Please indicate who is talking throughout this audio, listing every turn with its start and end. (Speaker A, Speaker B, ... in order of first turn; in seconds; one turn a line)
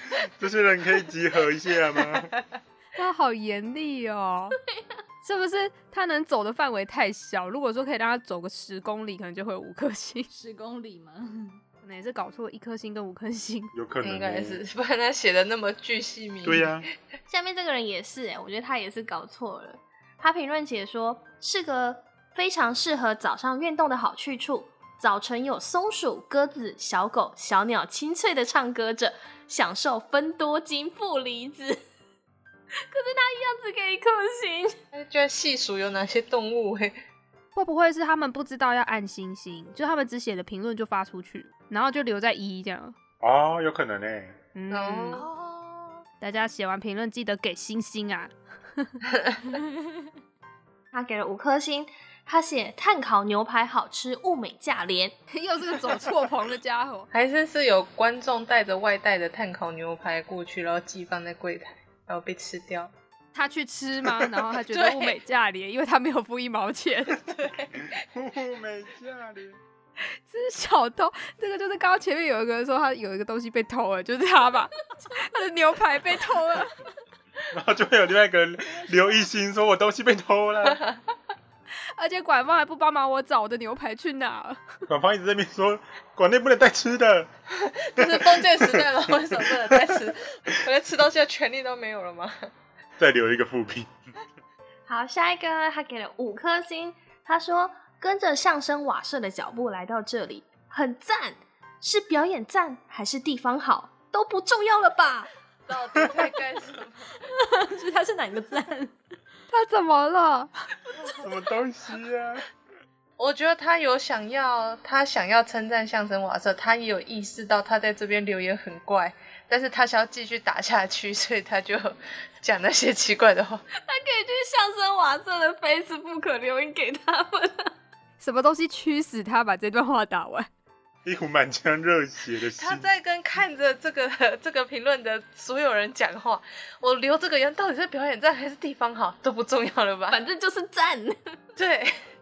Speaker A: 0.2-2.3
Speaker B: 3.0-4.6
Speaker B: 5.2-10.3
Speaker C: 10.3-11.6
Speaker B: 11.8-13.7
Speaker A: 13.7-14.6
Speaker D: 14.0-16.8
Speaker A: 16.4-16.9
Speaker E: 17.3-31.8
Speaker E: 32.9-34.8
Speaker D: 34.9-37.0
Speaker B: 37.5-43.0
Speaker A: 43.2-44.4
Speaker B: 44.5-45.3
Speaker D: 44.7-45.2
Speaker E: 45.1-46.0
Speaker B: 46.2-49.0
Speaker E: 50.9-55.2
Speaker B: 55.3-57.1
Speaker D: 57.1-62.9
Speaker B: 63.3-67.2
Speaker D: 64.6-65.2
Speaker D: 67.1-67.8
Speaker A: 67.9-69.6
Speaker B: 70.2-76.8
Speaker A: 77.5-80.8
Speaker B: 82.0-84.8
Speaker A: 84.9-87.3
Speaker D: 87.5-92.5
Speaker A: 88.0-88.9
Speaker A: 93.0-93.9
Speaker E: 94.9-105.3
Speaker D: 105.7-107.1
Speaker C: 107.2-108.9
Speaker B: 109.5-110.5
Speaker A: 111.0-112.5
Speaker D: 113.2-123.6
Speaker E: 123.8-127.7
Speaker B: 128.2-130.5
Speaker A: 131.1-132.8
Speaker D: 132.6-140.2
Speaker E: 140.1-141.2
Speaker D: 141.6-141.9